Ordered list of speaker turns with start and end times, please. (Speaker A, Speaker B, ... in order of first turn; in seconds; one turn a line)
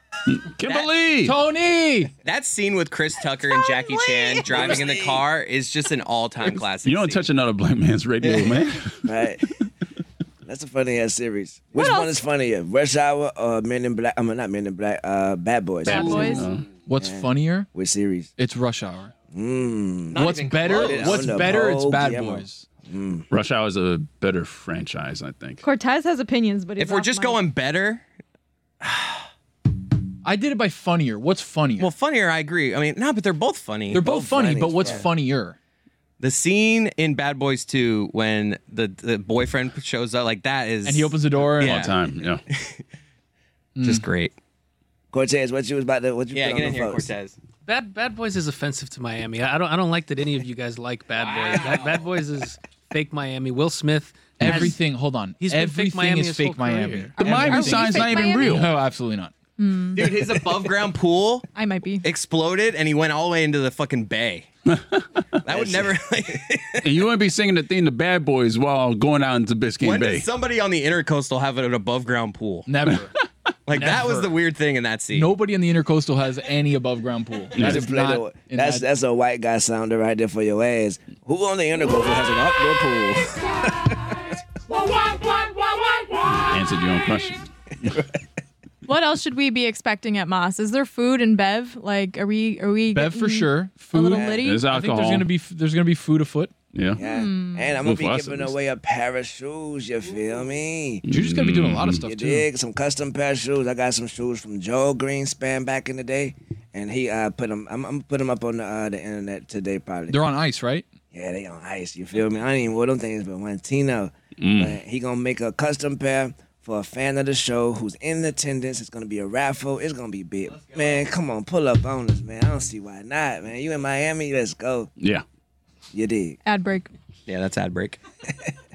Speaker A: 0.3-1.4
Speaker B: 1.2-2.1
Speaker C: 2.2-7.2
Speaker D: 3.4-4.7
Speaker E: 4.4-5.2
Speaker A: 6.8-9.1
Speaker E: 9.0-9.4
Speaker E: 10.4-16.4
Speaker D: 11.7-12.2
Speaker A: 15.9-16.6
Speaker D: 15.9-16.5
Speaker B: 16.9-17.7
Speaker E: 17.0-18.3
Speaker B: 18.4-19.1
Speaker E: 19.3-23.3
Speaker C: 20.1-21.5
Speaker B: 20.1-22.6
Speaker A: 23.3-25.6
Speaker D: 25.6-27.4
Speaker C: 26.8-28.0
Speaker B: 30.2-31.9
Speaker C: 31.8-34.0
Speaker B: 33.9-35.5
Speaker E: 34.0-35.1
Speaker C: 36.2-41.9
Speaker B: 40.8-41.9
Speaker A: 41.6-42.4
Speaker C: 42.5-42.8
Speaker B: 43.8-44.0
Speaker C: 43.8-44.3
Speaker E: 45.1-47.1
Speaker C: 46.3-47.3
Speaker F: 47.6-54.8
Speaker C: 51.2-51.9
Speaker B: 54.4-59.3
Speaker A: 54.4-54.7
Speaker F: 55.4-57.3
Speaker D: 57.2-58.6
Speaker A: 57.2-58.7
Speaker D: 59.6-60.2
Speaker C: 60.0-61.5
Speaker D: 61.5-62.0
Speaker C: 62.0-64.5
Speaker A: 64.7-65.1
Speaker C: 65.4-66.8
Speaker E: 65.5-66.4
Speaker A: 66.8-70.3
Speaker C: 69.8-72.7
Speaker B: 72.7-73.1
Speaker C: 73.7-75.3
Speaker B: 73.7-74.3
Speaker B: 75.1-78.8
Speaker A: 77.5-77.9
Speaker E: 77.6-84.0
Speaker A: 86.2-88.0
Speaker D: 88.8-94.7
Speaker B: 92.9-96.5
Speaker E: 94.1-94.4
Speaker A: 94.4-95.3
Speaker A: 96.7-97.0
Speaker E: 97.0-101.0
Speaker D: 97.0-97.8
Speaker A: 97.8-98.5
Speaker A: 101.0-102.0
Speaker B: 101.1-102.5
Speaker E: 102.1-110.2
Speaker B: 110.1-110.9
Speaker E: 111.1-124.9
Speaker A: 114.4-114.8
Speaker A: 125.0-125.2
Speaker E: 125.9-126.4
Speaker D: 126.4-126.9
Speaker C: 127.3-128.0